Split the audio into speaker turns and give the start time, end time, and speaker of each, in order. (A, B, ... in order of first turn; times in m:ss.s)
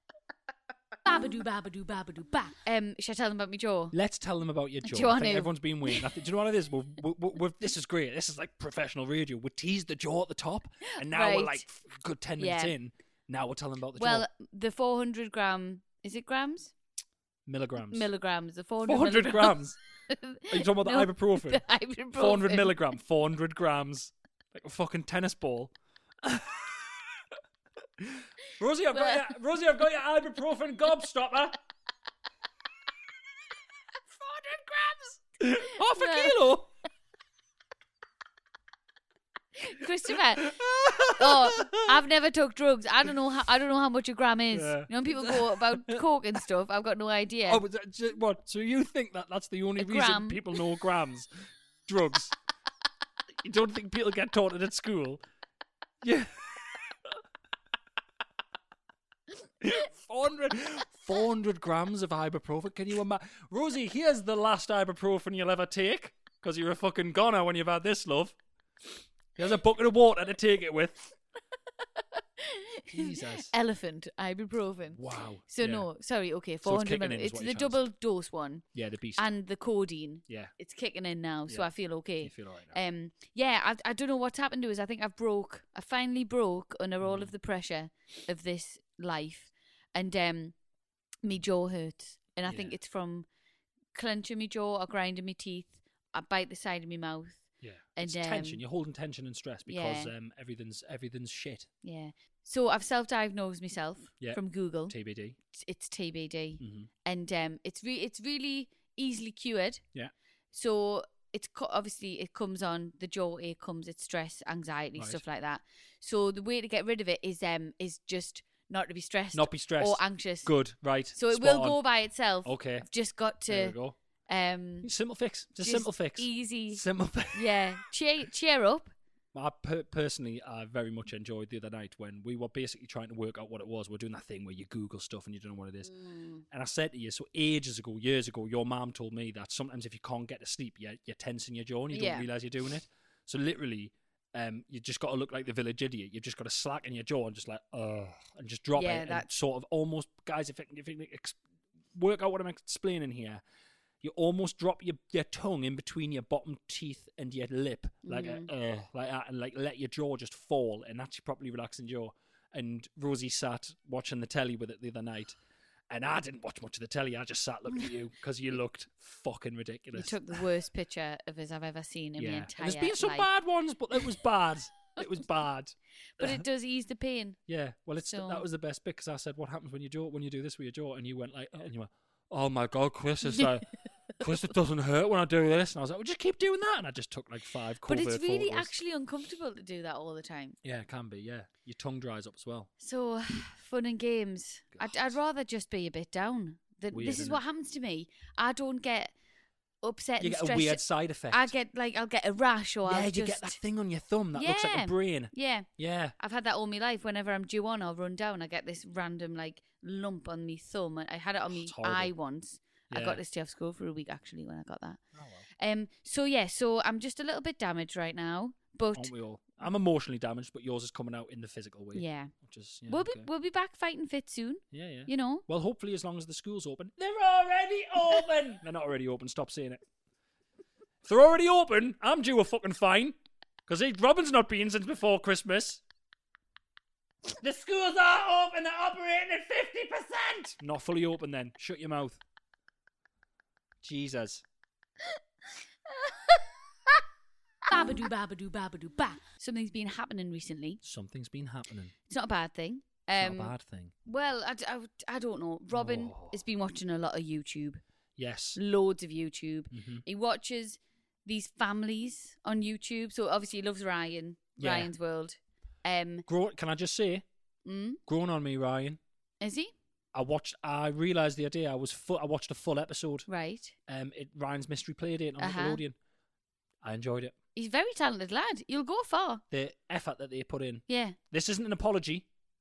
0:01.1-0:02.5 A
0:02.6-0:03.9 B
0:03.9-0:14.3 C
0:04.8-0:06.0 B
0:11.0-0:11.7 B
0:12.4-0:12.7 B
0:14.0-0:16.7 B
0:17.5-0:18.1 C
0:17.8-0:22.8 B
0:18.8-0:19.8 C
0:20.5-0:21.6 C
0:22.2-0:25.7 C
0:26.2-0:26.8 C
0:28.0-0:31.6 C
0:28.9-0:29.2 B
0:34.2-0:36.7 C
0:36.0-0:36.4 B
0:39.6-0:40.5 B
0:40.4-0:42.0 C
0:41.2-0:47.6 B
0:44.5-0:46.0 C
0:47.5-0:51.3 C
0:49.8-0:50.4 B
0:51.9-0:52.3 C
0:53.4-0:55.2 C
0:56.0-0:57.1 C
0:59.6-1:08.4 C
1:09.4-1:11.1 C
1:12.4-1:18.7 B
1:12.9-1:13.5 C
1:14.9-1:15.9 C
1:16.6-1:17.8 C
1:18.7-1:19.2 C
1:19.2-1:30.6 B
1:20.3-1:20.5 C
1:22.2-1:22.8 C
1:27.0-1:27.3 C
1:31.2-1:33.3 B
1:32.5-1:32.8 C
1:33.9-1:38.6 B
1:37.6-1:41.7 C
1:39.7-1:40.1 B
1:41.8-1:44.9 B
1:44.2-1:45.4 C
1:45.5-1:49.8 B
1:46.6-1:46.9 C
1:50.5-2:00.5 B
1:59.3-2:01.8 C
2:01.2-2:03.8 B
2:02.4-2:02.9 C
2:03.5-2:04.0 C
2:04.3-2:04.9 B
2:04.8-2:07.4 C
2:05.6-2:08.9 B
2:09.3-2:16.0 C
2:15.9-2:16.4 B
2:16.5-2:31.4 C
2:21.9-2:22.3 B
2:28.8-2:29.3 B
2:32.0-2:33.4 C
2:34.0-2:45.4 C
2:38.0-2:38.5 B
2:45.9-2:50.4 C
2:49.9-2:53.3 B
2:52.2-2:56.4 C
2:56.2-2:57.4 B
2:57.5-3:08.7 C
2:58.1-2:58.4 B
3:07.9-3:10.6 B
3:10.6-3:12.7 C
3:12.8-3:19.1 B
3:14.7-3:15.1 C
3:16.9-3:17.4 C
3:19.8-3:23.6 B
3:20.2-3:21.5 C
3:22.9-3:26.2 C
3:24.3-3:25.7 B
3:26.2-3:35.0 B
3:31.5-3:32.1 C
3:32.9-3:33.2 C
3:35.2-3:35.5 C
3:35.6-3:39.1 B
3:39.0-3:43.3 C
3:41.9-3:42.3 B
3:42.9-3:45.4 B
3:44.7-3:49.8 C
3:51.0-3:53.2 C
3:53.7-3:55.8 C
3:57.4-4:02.2 C
4:03.8-4:04.4 C
4:07.7-4:09.2 A
4:09.4-4:10.8 B
4:10.8-4:11.9 C
4:12.1-4:17.8 B
4:13.2-4:13.9 C
4:15.7-4:16.4 C
4:18.2-4:18.6 C
4:18.6-4:26.2 B
4:19.7-4:20.0 C
4:24.6-4:24.9 C
4:26.3-4:27.2 C
4:27.6-4:28.0 B
4:28.1-4:29.0 C
4:29.4-4:29.7 B
4:30.1-4:33.3 C
4:33.3-4:33.8 B
4:33.9-4:36.0 C
4:35.4-4:35.8 B
4:36.8-4:37.4 C
4:37.6-4:39.4 B
4:39.5-4:42.3 C
4:40.9-4:41.2 B